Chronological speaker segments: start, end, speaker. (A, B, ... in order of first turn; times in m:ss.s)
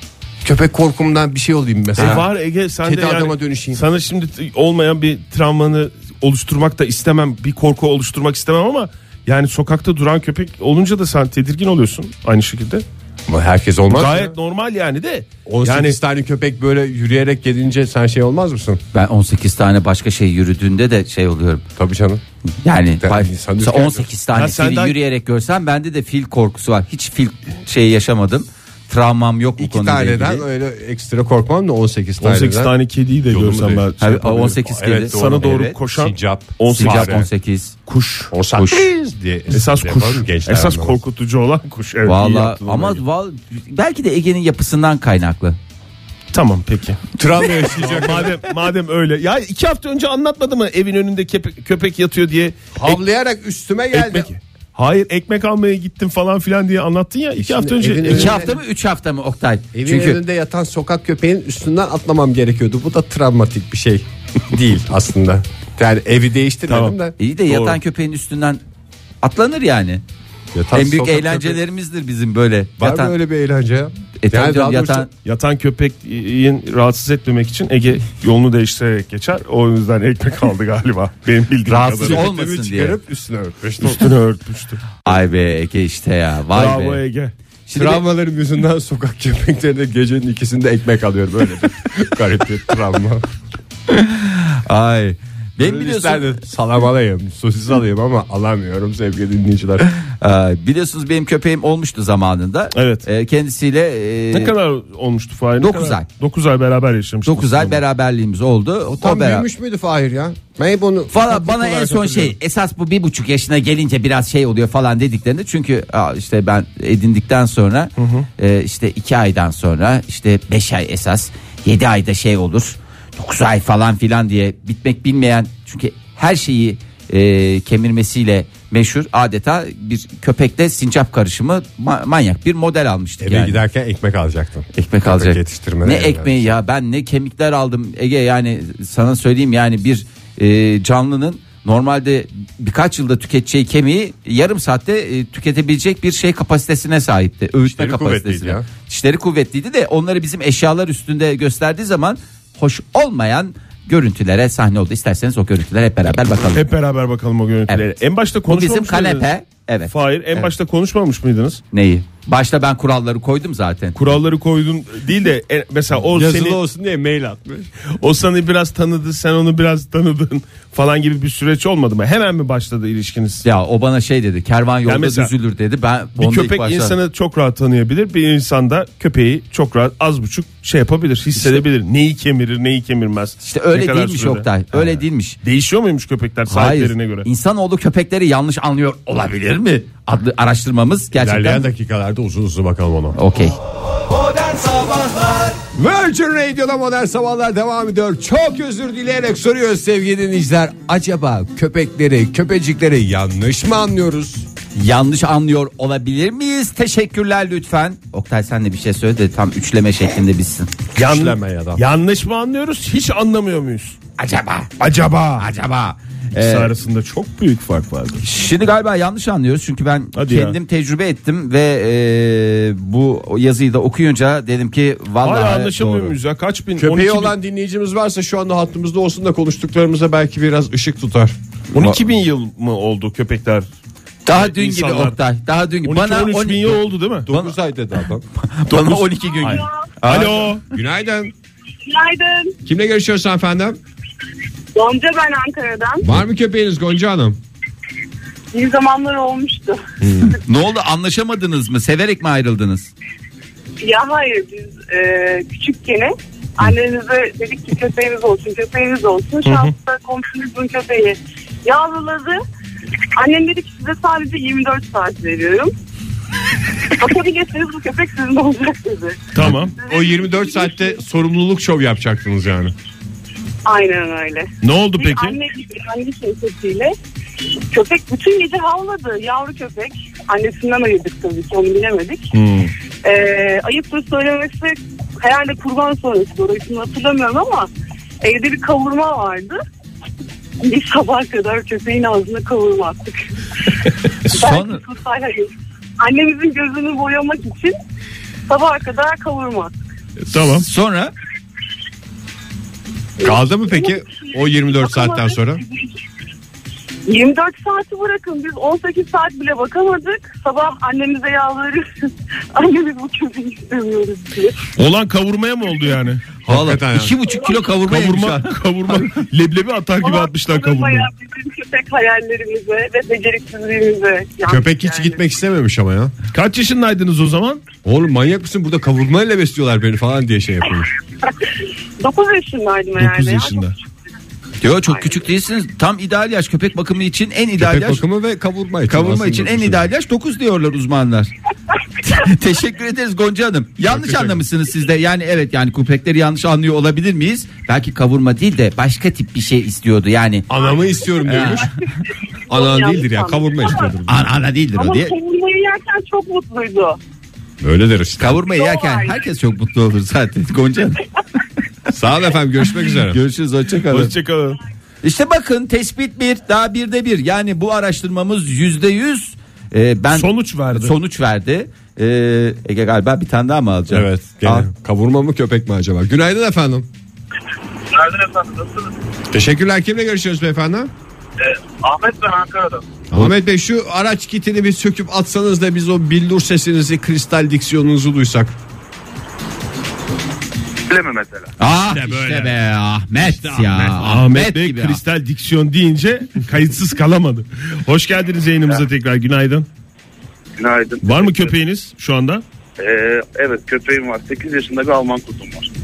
0:00.4-0:03.8 A
0:02.0-0:12.8 B
0:13.3-0:14.3 A
0:13.9-0:16.0 B
0:15.4-0:18.8 A
0:18.9-0:21.6 C
0:21.8-0:22.2 A
0:22.6-0:30.4 C
0:23.0-0:24.1 A
0:24.3-0:24.9 B
0:29.6-0:32.7 A
0:32.2-0:34.4 B
0:33.3-0:37.3 A
0:34.0-0:35.8 C
0:35.1-0:37.3 B
0:36.7-0:37.8 C
0:37.9-0:38.3 B
0:38.3-0:41.0 A
0:38.5-0:38.9 C
0:39.5-0:43.0 B
0:42.0-0:45.6 C
0:46.3-0:47.0 B
0:47.2-0:48.4 A
0:47.6-0:53.0 B
0:52.7-0:54.3 A
0:53.9-0:58.5 B
0:57.4-0:58.6 A
0:58.1-1:00.2 C
0:59.7-1:07.1 A
1:06.7-1:07.0 B
1:07.2-1:08.6 C
1:07.5-1:07.8 B
1:09.2-1:10.0 C
1:10.5-1:11.6 A
1:10.7-1:13.1 C
1:12.8-1:15.1 A
1:14.2-1:15.1 C
1:15.2-1:22.2 B
1:21.7-1:24.1 A
1:22.0-1:23.0 C
1:23.8-1:24.8 B
1:25.0-1:27.0 C
1:26.5-1:27.3 B
1:27.7-1:28.0 C
1:27.7-1:33.2 A
1:33.9-1:36.4 C
1:35.6-1:39.9 A
1:40.2-1:44.5 C
1:42.7-1:43.0 B
1:44.3-1:47.8 B
1:45.6-1:46.0 C
1:47.2-1:49.4 C
1:48.9-1:52.4 A
1:51.1-2:13.6 C
1:58.0-1:58.3 B
2:13.2-2:16.4 A
2:14.7-2:36.6 C
2:27.6-2:28.6 A
2:36.5-2:39.3 B
2:37.7-2:37.9 C
2:38.5-2:40.5 C
2:39.9-2:41.6 B
2:41.7-2:44.0 C
2:43.9-2:46.6 B
2:46.0-2:47.7 A
2:48.0-2:53.4 B
2:53.4-2:57.0 C
2:54.8-2:55.3 B
2:56.2-3:07.3 B
3:03.4-3:05.4 C
3:06.5-3:11.6 C
3:11.1-3:13.2 A
3:13.1-3:13.6 C
3:15.7-3:24.5 A
3:24.7-3:30.7 C
3:31.0-3:31.8 A
3:31.0-3:34.0 B
3:34.2-3:34.7 C
3:34.8-3:35.5 B
3:35.4-3:36.7 C
3:36.4-3:38.2 B
3:38.2-3:46.1 C
3:40.1-3:40.6 B
3:45.2-3:47.3 B
3:46.8-3:51.4 A
3:51.7-3:53.7 B
3:51.7-3:52.0 C
3:54.2-3:57.6 C
3:54.3-3:55.2 B
3:55.8-3:57.3 B
3:57.2-3:58.2 A
3:58.4-4:00.5 C
3:58.7-4:00.6 B
3:59.4-3:59.8 D
4:00.1-4:01.3 A
4:01.8-4:02.5 D
4:02.6-4:03.8 A
4:04.7-4:06.1 D
4:06.0-4:07.4 A
4:08.5-4:10.3 D
4:10.0-4:10.4 A
4:10.4-4:12.9 C
4:13.8-4:22.4 D
4:19.4-4:19.7 B
4:23.2-4:25.7 D
4:26.9-4:31.0 D
4:29.3-4:29.7 B
4:29.8-4:32.7 A
4:33.6-4:36.9 D
4:34.6-4:35.4 B
4:37.7-4:42.3 D
4:42.3-4:42.7 B
4:43.0-4:47.7 D
4:48.2-4:49.6 D
4:50.6-4:55.5 D
4:54.3-4:54.8 C
4:56.0-4:57.8 D
4:58.5-4:59.7 D
5:00.3-5:00.6 B
5:00.3-5:01.1 C
5:03.2-5:05.6 A
5:03.2-5:06.0 D
5:07.1-5:11.9 D
5:12.5-5:14.7 D
5:14.8-5:16.3 B
5:16.5-5:17.1 A
5:16.5-5:19.2 C
5:17.7-5:21.1 B
5:20.0-5:25.2 D
5:24.4-5:26.1 A
5:26.3-5:27.6 B
5:27.8-5:30.9 A
5:32.0-5:33.8 D
5:33.0-5:33.7 B
5:34.6-5:38.0 C
5:37.6-5:39.9 A
5:38.9-5:41.3 C
5:42.0-5:50.5 C
5:43.8-5:44.4 A
5:50.5-5:51.7 A
5:51.2-5:51.6 C
5:51.3-5:51.9 D
5:52.5-5:54.0 D
5:52.5-5:54.0 A
5:54.0-5:55.1 C
5:54.7-5:57.0 D
5:57.6-5:58.4 A
5:58.2-6:01.0 C
5:58.5-5:59.2 D
6:01.9-6:03.2 A
6:03.1-6:04.1 C
6:03.9-6:04.6 B
6:05.0-6:14.7 C
6:10.1-6:10.9 B
6:13.9-6:16.9 A
6:17.9-6:18.9 E
6:19.3-6:20.9 A
6:21.4-6:22.8 E
6:23.1-6:28.5 A
6:30.8-6:31.5 E
6:31.6-6:35.0 C
6:31.9-6:32.6 A
6:33.2-6:33.9 A
6:33.8-6:39.7 B
6:40.6-6:41.5 E
6:41.0-6:42.4 B
6:42.8-6:45.7 E